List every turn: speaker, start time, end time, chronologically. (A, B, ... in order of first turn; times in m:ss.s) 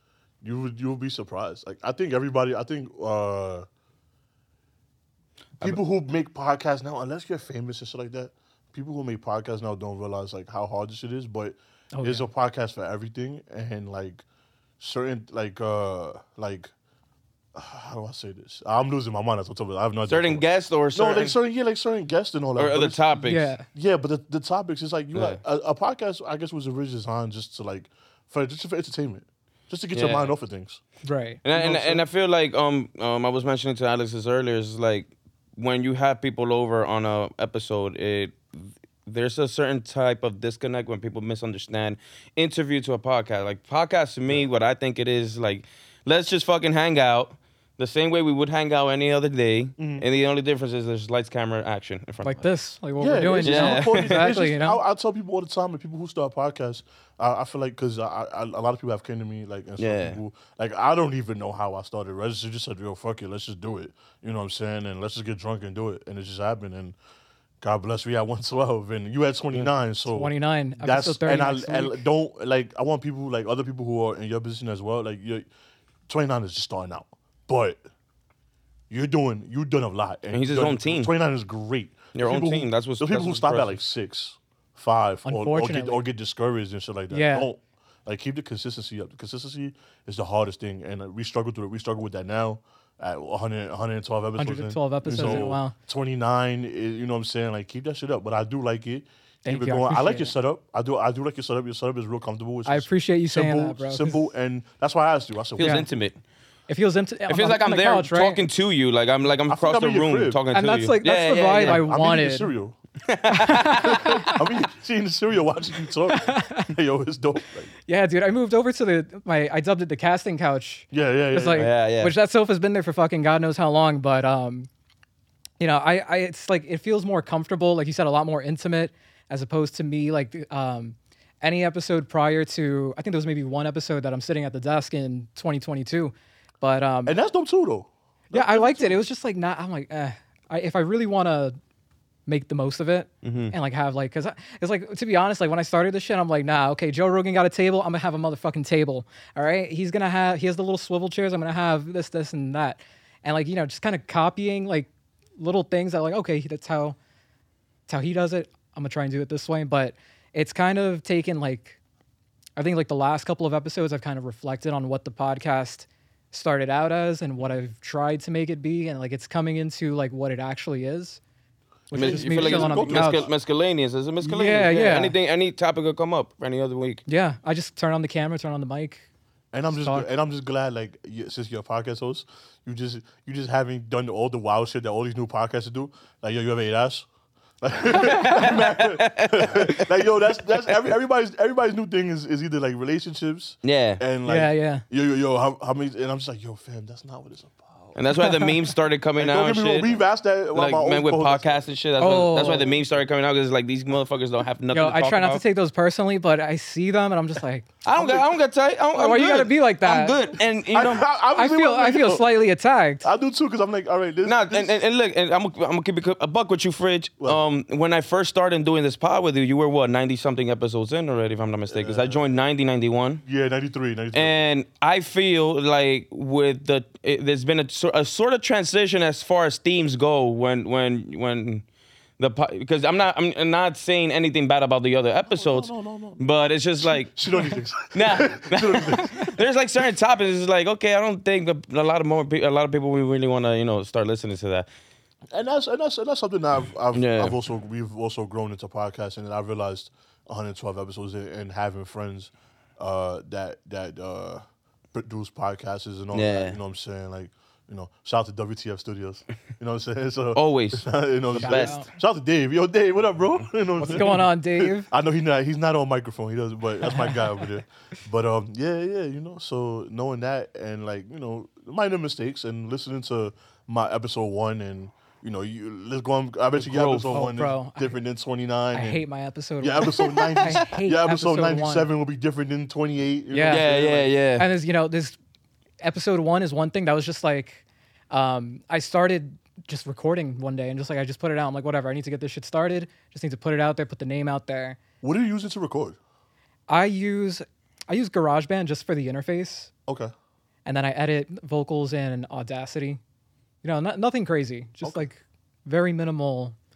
0:00.4-0:03.7 A
0:05.6-0:14.2 A
0:11.9-0:12.3 B
0:14.8-0:16.7 A
0:17.5-0:23.0 A
0:20.1-0:21.4 C
0:22.6-0:23.5 C
0:23.2-0:23.6 B
0:23.7-0:30.8 A
0:25.1-0:25.4 C
0:29.9-0:30.3 C
0:31.0-0:31.4 B
0:31.4-0:52.4 C
0:31.5-0:32.0 A
0:49.8-0:50.0 A
0:52.2-0:54.8 B
0:53.0-1:06.9 A
0:53.4-0:54.3 C
0:59.8-1:00.2 C
1:07.6-1:15.5 A
1:10.1-1:12.0 B
1:16.1-1:17.8 A
1:18.9-1:45.8 A
1:20.3-1:21.1 C
1:22.1-1:23.8 C
1:25.2-1:26.0 B
1:27.1-1:27.5 B
1:34.4-1:35.7 B
1:35.1-1:35.4 C
1:39.4-1:40.3 B
1:42.6-1:44.2 B
1:45.6-1:46.2 C
1:45.6-1:45.8 B
1:46.7-1:48.4 B
1:47.3-1:51.8 C
1:49.5-1:50.4 A
1:50.5-1:52.5 B
1:51.6-1:52.8 A
1:53.1-1:54.0 C
1:53.3-1:54.5 B
1:53.5-1:57.7 A
1:56.2-1:56.7 B
1:57.9-2:04.7 B
2:00.9-2:01.7 A
2:01.5-2:02.1 C
2:05.6-2:17.2 B
2:17.0-2:19.0 A
2:18.3-2:21.6 B
2:22.3-2:37.0 B
2:23.2-2:23.5 C
2:37.9-2:41.8 B
2:42.6-2:51.2 B
2:51.9-2:53.3 B
2:51.9-2:53.3 A
2:51.9-2:57.0 C
2:54.2-2:55.1 B
2:57.1-2:59.0 B
2:59.5-3:07.1 A
2:59.7-3:00.1 B
3:07.6-3:18.0 A
3:07.9-3:09.9 C
3:13.6-3:14.0 C
3:14.2-3:14.8 B
3:17.9-3:20.0 C
3:18.2-3:18.6 B
3:19.2-3:21.5 A
3:20.5-3:25.4 C
3:22.0-3:22.7 B
3:24.7-3:27.6 B
3:27.8-3:31.0 C
3:27.9-3:28.3 A
3:28.9-3:30.3 B
3:30.7-3:32.3 A
3:31.4-3:33.1 B
3:33.0-3:34.8 A
3:34.2-3:43.2 C
3:41.7-3:42.2 A
3:43.2-3:44.4 A
3:44.1-3:51.6 C
3:52.2-4:04.7 C
3:55.3-3:56.2 A
3:56.8-3:59.4 A
4:05.3-4:39.0 A
4:06.9-4:07.4 C
4:16.1-4:16.6 C
4:20.3-4:21.8 C
4:21.4-4:21.9 B
4:23.8-4:24.9 B
4:26.9-4:27.3 B
4:36.6-4:37.1 C
4:37.1-4:38.0 B
4:38.7-4:41.9 B
4:39.6-4:44.1 A
4:43.3-4:43.7 B
4:43.5-4:44.5 C
4:44.4-4:45.2 B
4:45.8-4:54.8 B
4:55.0-4:56.0 A
4:56.7-4:59.7 B
5:00.6-5:03.0 B
5:03.6-5:06.5 B